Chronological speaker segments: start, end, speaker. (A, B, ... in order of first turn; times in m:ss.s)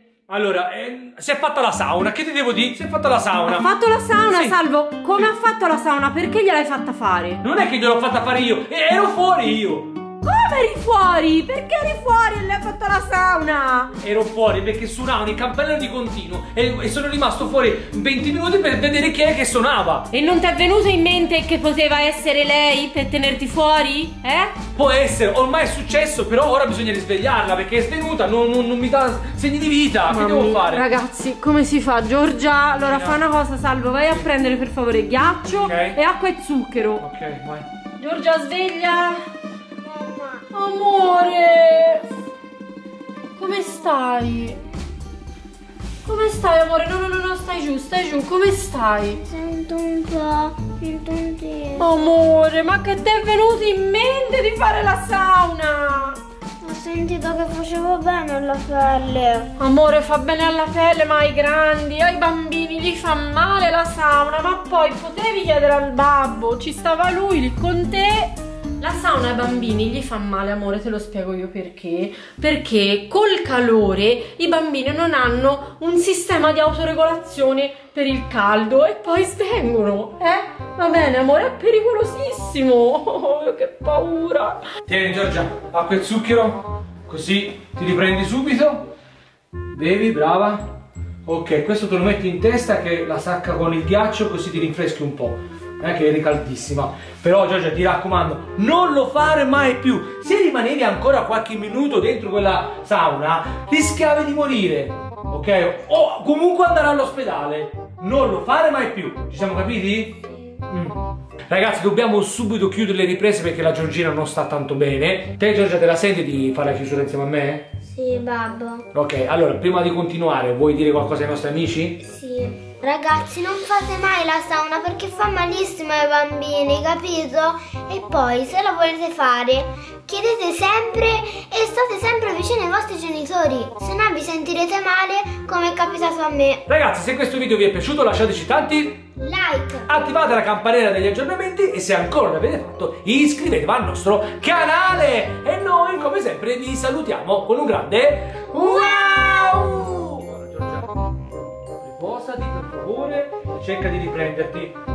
0:00.3-0:03.7 A
0:03.5-0:07.4 B
0:04.2-0:04.6 A
0:07.4-0:09.9 A
0:10.2-0:13.9 B
0:14.0-0:20.1 A
0:20.1-0:24.6 B
0:24.8-0:30.8 A
0:30.1-0:37.0 B
0:32.8-0:33.2 A
0:35.6-0:36.0 A
0:37.0-0:37.7 A
0:38.0-0:39.2 B
0:39.8-0:40.5 C
0:40.5-0:42.1 B
0:43.4-0:44.6 B
0:46.0-0:49.2 B
0:49.1-0:51.9 C
0:51.8-0:56.2 B
0:56.6-0:59.5 C
0:59.6-1:24.6 B
1:24.9-1:28.9 A
1:29.7-1:30.7 A
1:31.3-1:51.0 A
1:51.5-1:57.7 A
1:57.9-1:58.9 C
1:58.9-2:02.0 A
2:02.0-2:16.6 C
2:16.7-2:19.0 A
2:19.2-2:19.9 C
2:19.9-2:31.1 A
2:29.0-2:29.2 C
2:31.6-2:34.8 A